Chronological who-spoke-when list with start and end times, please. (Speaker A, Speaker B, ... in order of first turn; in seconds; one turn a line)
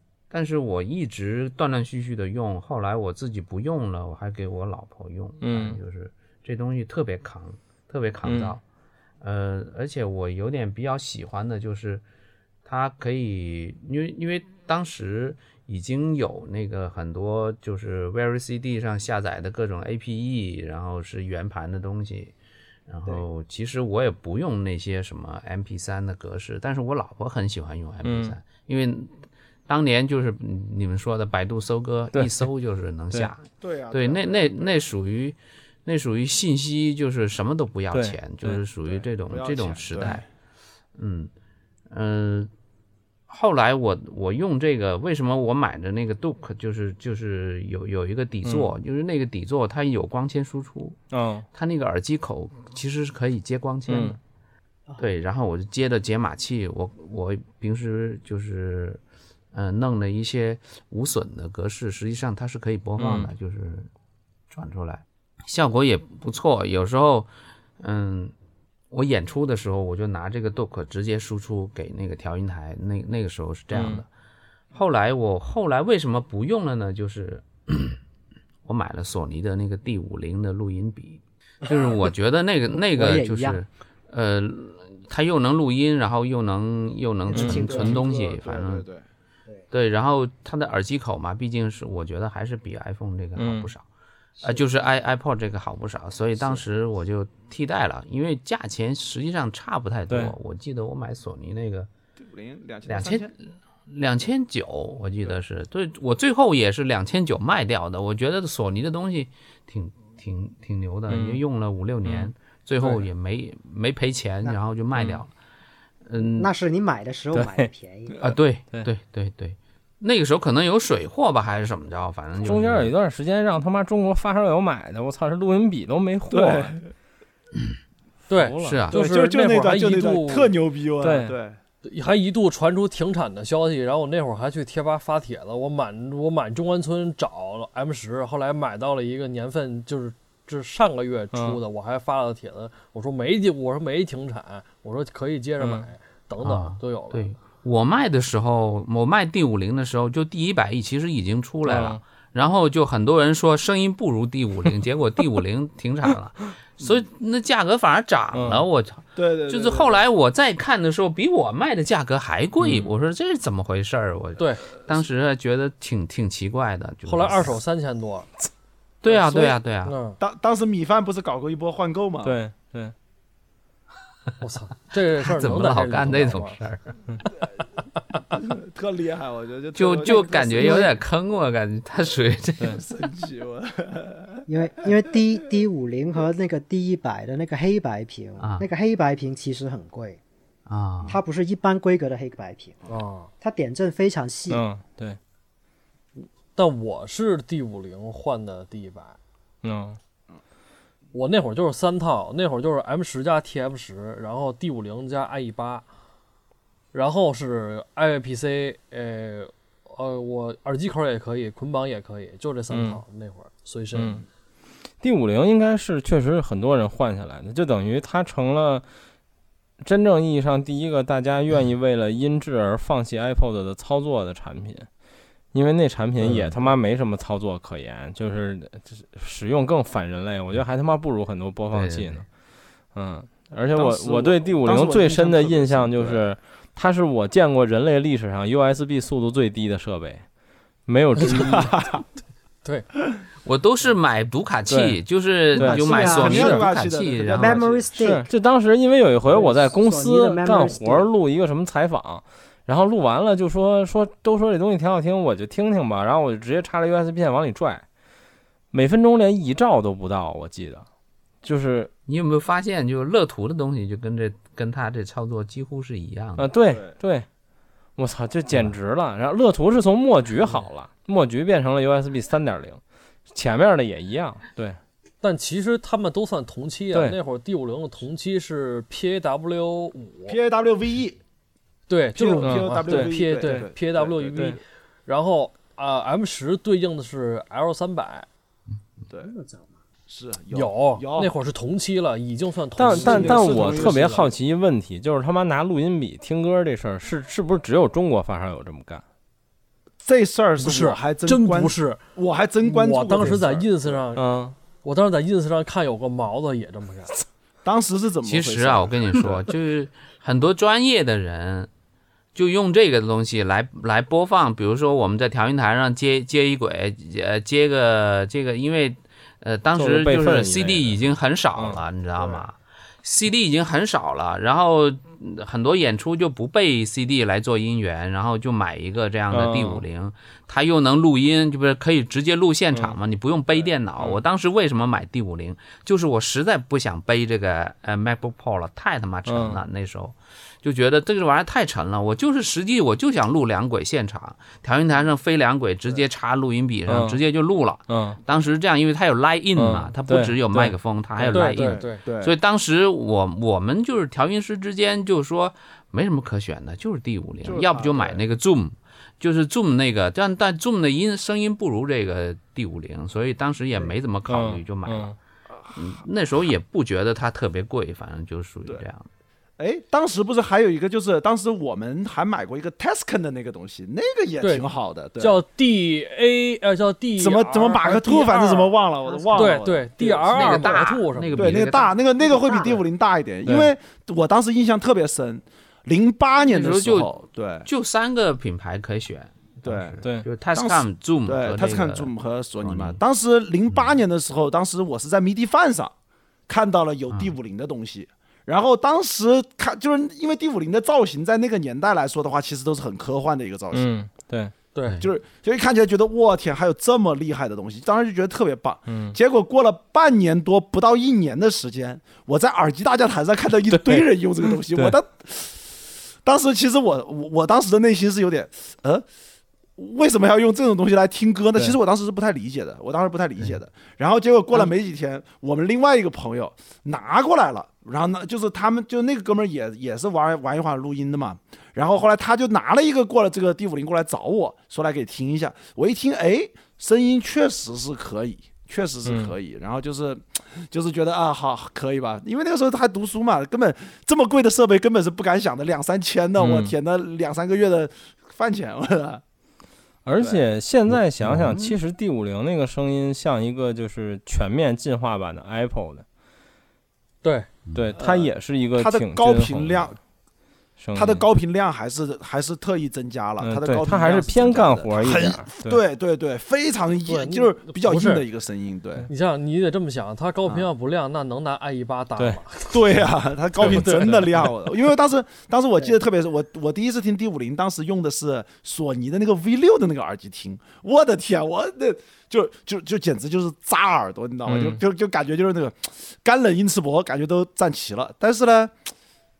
Speaker A: 0.3-8.6
Speaker B: 5.4-5.8
Speaker B: 8.2-8.6
Speaker A: 9.2-12.0
Speaker A: 12.6-22.3
Speaker A: 22.9-29.1
Speaker B: 28.0-28.3
Speaker A: 29.7-40.2
Speaker C: 33.6-34.8
Speaker B: 37.9-38.6
Speaker C: 38.8-40.2
Speaker A: 41.0-41.3
Speaker A: 41.9-42.5
Speaker A: 43.3-51.0
Speaker B: 48.4-48.7
Speaker B: 51.1-51.5
Speaker A: 51.5-54.2
Speaker B: 53.9-54.2
Speaker A: 55.0-59.0
Speaker A: 59.5-63.9
Speaker B: 63.0-63.3
Speaker A: 64.5-68.3
Speaker A: 68.9-74.1
Speaker B: 73.7-74.0
Speaker A: 74.7-78.0
Speaker A: 78.7-88.8
Speaker D: 82.8-83.6
Speaker D: 87.3-88.0
Speaker C: 87.3-89.0
Speaker A: 89.7-93.8
Speaker B: 93.4-93.7
Speaker A: 94.4-101.9
Speaker B: 100.1-100.3
Speaker C: 102.2-103.3
Speaker A: 102.9-115.3
Speaker B: 111.1-111.4
Speaker B: 112.0-112.3
Speaker B: 115.0-115.2
Speaker A: 116.0-116.5
Speaker D: 116.4-118.2
Speaker B: 117.3-117.7
Speaker A: 118.2-122.9
Speaker B: 118.2-118.9
Speaker B: 122.4-126.8
Speaker C: 126.3-126.8
Speaker B: 128.3-128.9
Speaker E: 128.3-130.5
Speaker A: 128.6-129.0
Speaker C: 128.9-131.6
Speaker B: 131.0-131.3
Speaker E: 131.8-147.3
Speaker B: 141.3-141.6
Speaker B: 145.6-145.9
Speaker A: 146.4-167.6
Speaker B: 151.7-152.0
Speaker B: 158.3-158.6
Speaker C: 159.2-160.0
Speaker B: 162.6-162.9
Speaker E: 164.4-164.7
Speaker E: 167.0-168.3
Speaker A: 169.0-169.9
Speaker C: 169.3-169.6
Speaker E: 169.8-170.2
Speaker C: 170.2-172.4
Speaker B: 172.2-172.9
Speaker E: 174.4-176.6
Speaker A: 175.2-177.0
Speaker C: 178.4-180.9
Speaker A: 179.7-182.8
Speaker D: 180.6-180.9
Speaker C: 182.7-184.4
Speaker D: 184.5-190.2
Speaker A: 188.4-188.7
Speaker A: 190.7-191.2
Speaker D: 191.1-192.8
Speaker E: 192.9-193.3
Speaker D: 193.4-194.6
Speaker B: 194.5-195.2
Speaker E: 196.5-199.2
Speaker B: 199.6-200.0
Speaker E: 201.1-205.8
Speaker E: 206.9-214.2
Speaker B: 212.7-213.0
Speaker B: 213.9-214.2
Speaker B: 215.0-218.8
Speaker B: 219.8-224.9
Speaker B: 225.5-232.2
Speaker A: 226.2-226.5
Speaker A: 231.7-232.2
Speaker B: 232.9-240.2
Speaker C: 233.7-236.2
Speaker B: 240.8-241.7
Speaker E: 241.2-241.5
Speaker C: 241.5-242.0
Speaker A: 243.4-247.8
Speaker B: 244.7-245.0
Speaker D: 245.5-248.2
Speaker B: 245.6-246.5
Speaker C: 245.9-247.9
Speaker B: 248.0-257.8
Speaker D: 249.2-251.1
Speaker B: 258.7-260.9
Speaker B: 261.4-261.9
Speaker A: 262.1-266.5
Speaker B: 266.4-267.3
Speaker C: 266.7-266.9
Speaker B: 268.0-272.8
Speaker B: 273.3-274.8
Speaker E: 275.2-280.4
Speaker B: 276.9-277.2
Speaker C: 280.3-281.2
Speaker E: 281.9-288.3
Speaker C: 282.1-284.4
Speaker B: 282.4-283.5
Speaker D: 289.2-289.7
Speaker C: 290.1-291.3
Speaker E: 290.5-294.3
Speaker B: 292.8-299.0
Speaker C: 292.9-294.2
Speaker C: 300.0-304.0
Speaker E: 300.6-302.0
Speaker E: 302.6-307.2
Speaker B: 304.1-304.5
Speaker C: 307.6-309.4
Speaker A: 308.2-311.7
Speaker A: 312.3-365.1
Speaker B: 319.8-321.0
Speaker B: 321.5-321.8
Speaker C: 322.2-322.4
Speaker B: 329.3-329.8
Speaker B: 339.3-339.6
Speaker B: 346.9-347.2
Speaker B: 347.9-348.2
Speaker B: 349.5-350.7
Speaker E: 351.2-352.0
Speaker C: 351.3-352.3
Speaker C: 357.4-358.2
Speaker B: 364.3-365.1
Speaker A: 365.7-369.1
Speaker C: 369.6-375.4
Speaker E: 374.4-374.7
Speaker E: 375.2-378.7
Speaker C: 377.2-380.7
Speaker D: 379.0-379.6
Speaker E: 379.3-381.6
Speaker A: 380.3-381.9
Speaker C: 381.4-387.7
Speaker D: 382.2-382.8
Speaker B: 383.4-383.7
Speaker A: 386.5-393.0
Speaker C: 389.6-390.0
Speaker C: 390.5-395.9
Speaker A: 393.7-394.0
Speaker C: 396.5-403.9
Speaker A: 397.1-397.3
Speaker B: 403.7-404.5
Speaker E: 404.7-405.1
Speaker C: 405.0-419.0
Speaker B: 408.9-409.1
Speaker B: 413.7-415.0
Speaker C: 419.8-449.2
Speaker B: 439.0-439.3
Speaker B: 446.4-446.7
Speaker B: 450.0-456.0
Speaker C: 450.2-450.4
Speaker A: 451.2-451.8
Speaker E: 457.2-457.5
Speaker B: 457.7-459.9
Speaker C: 458.0-460.0
Speaker B: 460.8-461.2
Speaker C: 460.9-469.1
Speaker B: 463.4-465.8
Speaker E: 467.1-468.2
Speaker E: 469.1-473.0
Speaker C: 472.7-488.7
Speaker E: 473.6-474.4
Speaker B: 473.6-474.3
Speaker B: 484.4-484.8